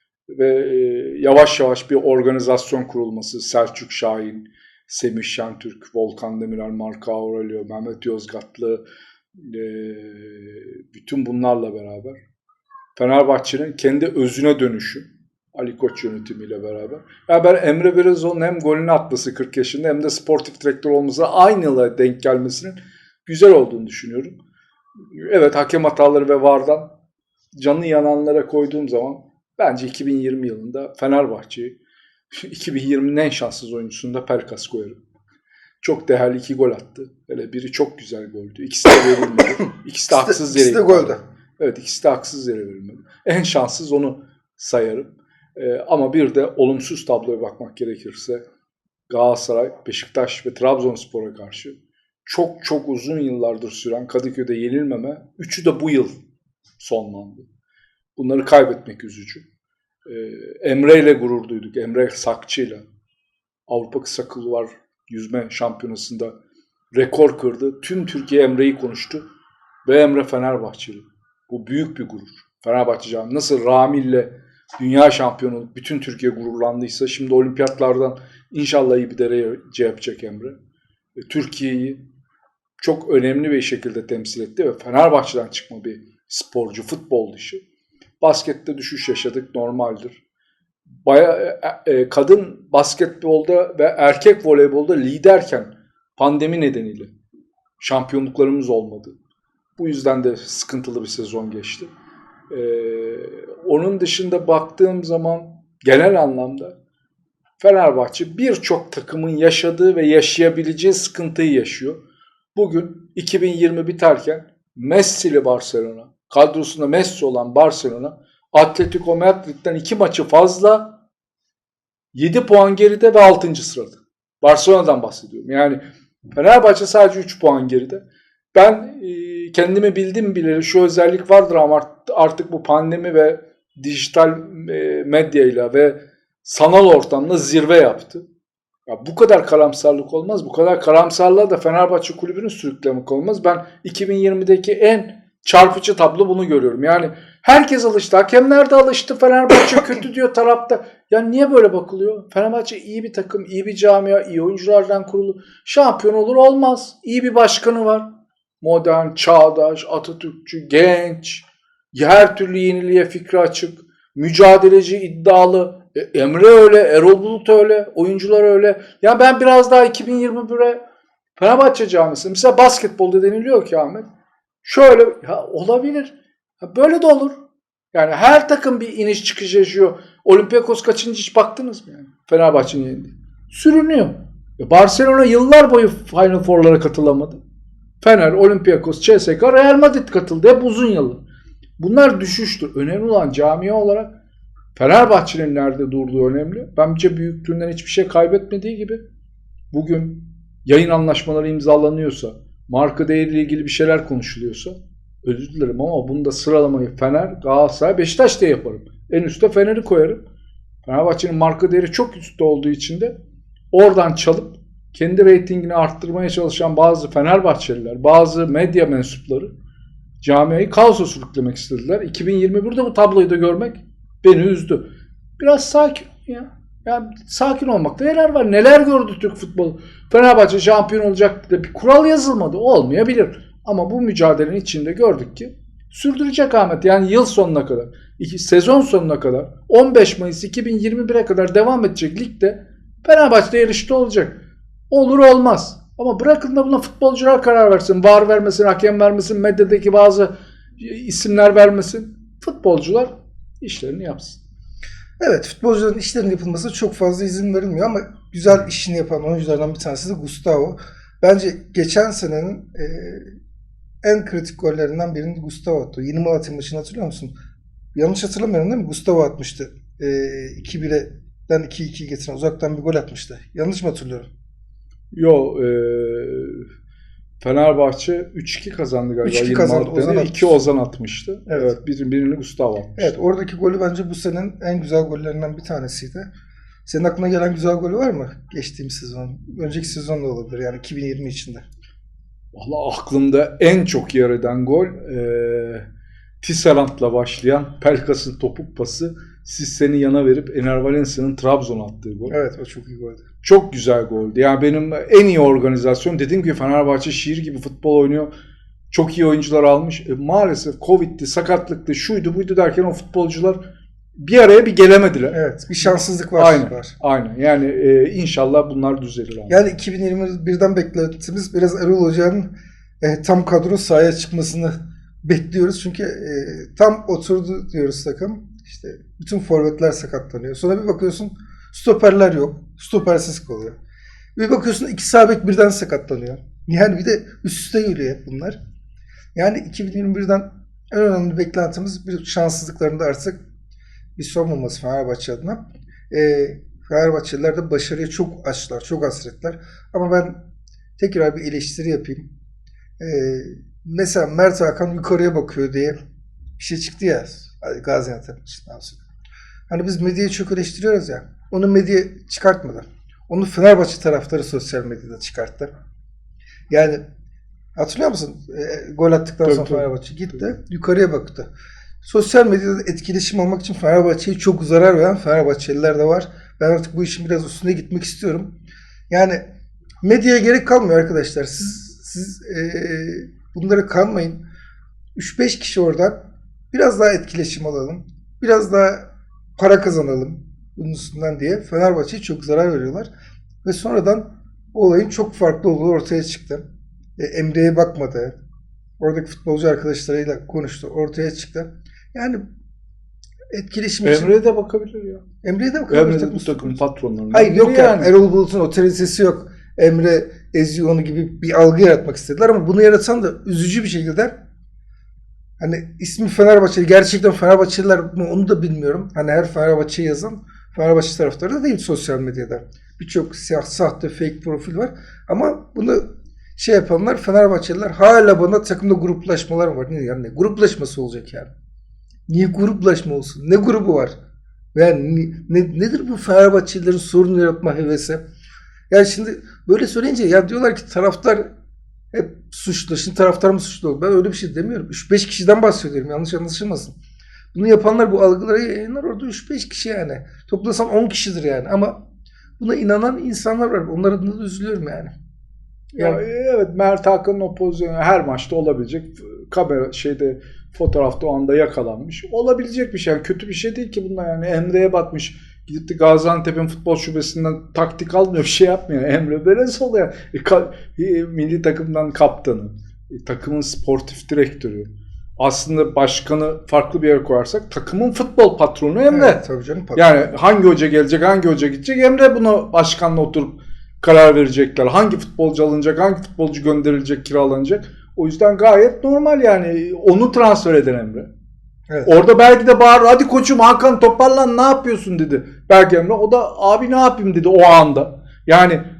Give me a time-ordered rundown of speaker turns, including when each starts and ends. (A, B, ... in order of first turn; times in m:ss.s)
0:00.3-0:12.2 A
0:13.0-0:24.4 A
0:25.1-0:26.9 A
0:27.5-0:31.8 A
0:32.3-0:35.0 A
0:35.8-0:48.4 A
0:40.1-0:41.2 B
0:49.1-0:56.2 A
0:56.8-0:57.5 A
0:58.2-0:59.4 A
1:00.0-1:02.8 A
1:03.7-1:06.3 A
1:06.9-1:09.2 A
1:09.8-1:20.6 A
1:21.2-1:22.0 A
1:22.8-1:27.6 A
1:28.2-1:30.2 A
1:31.0-1:37.1 A
1:37.8-1:39.2 A
1:39.8-1:41.9 A
1:42.5-1:46.8 A
1:47.6-1:52.0 A
1:52.5-2:01.0 A
2:02.1-2:05.8 A
2:06.3-2:18.2 A
2:18.9-2:38.1 A
2:38.6-2:50.8 A
2:51.4-2:54.0 A
2:54.6-2:57.4 A
2:57.9-3:07.4 A
3:08.0-3:11.2 A
3:11.8-3:14.1 A
3:14.7-3:19.0 A
3:19.7-3:30.2 A
3:30.8-3:33.1 A
3:33.7-3:39.5 A
3:40.2-3:44.9 A
3:45.4-4:14.4 A
4:15.2-4:23.3 B
4:24.0-4:27.3 B
4:27.9-4:34.3 B
4:35.1-4:36.7 A
4:37.4-4:43.2 A
4:39.2-4:40.6 B
4:41.5-4:41.7 B
4:43.0-4:46.3 B
4:46.8-4:51.6 B
4:52.5-4:55.8 A
4:56.4-5:02.4 A
5:02.3-5:03.2 B
5:03.4-5:08.3 A
5:08.9-5:13.6 A
5:14.2-5:19.6 A
5:15.3-5:16.9 B
5:19.5-5:33.8 B
5:34.4-5:38.6 B
5:39.3-5:43.4 B
5:44.2-5:50.4 B
5:51.0-5:52.3 B
5:53.0-5:56.0 B
5:56.6-5:59.0 B
5:59.7-6:05.7 B
6:06.7-6:07.0 B
6:07.8-6:11.5 B
6:09.4-6:10.4 A
6:12.0-6:18.5 B
6:19.1-6:19.4 B
6:20.0-6:24.4 B
6:25.2-6:26.2 B
6:26.7-6:33.1 B
6:33.6-6:36.6 B
6:37.2-6:38.4 B
6:39.0-6:42.4 B
6:43.5-6:44.3 B
6:44.0-6:45.2 A
6:45.4-6:46.8 B
6:45.9-6:48.1 A
6:47.3-6:54.3 B
6:55.6-7:11.5 B
7:12.3-7:14.1 B
7:14.7-7:18.2 B
7:18.9-7:21.5 B
7:22.1-7:26.9 B
7:27.5-7:32.0 B
7:32.6-7:35.1 B
7:35.9-7:59.4 A
7:59.1-8:00.4 B
7:59.9-8:11.3 A
8:11.9-8:12.2 B
8:12.0-8:18.8 A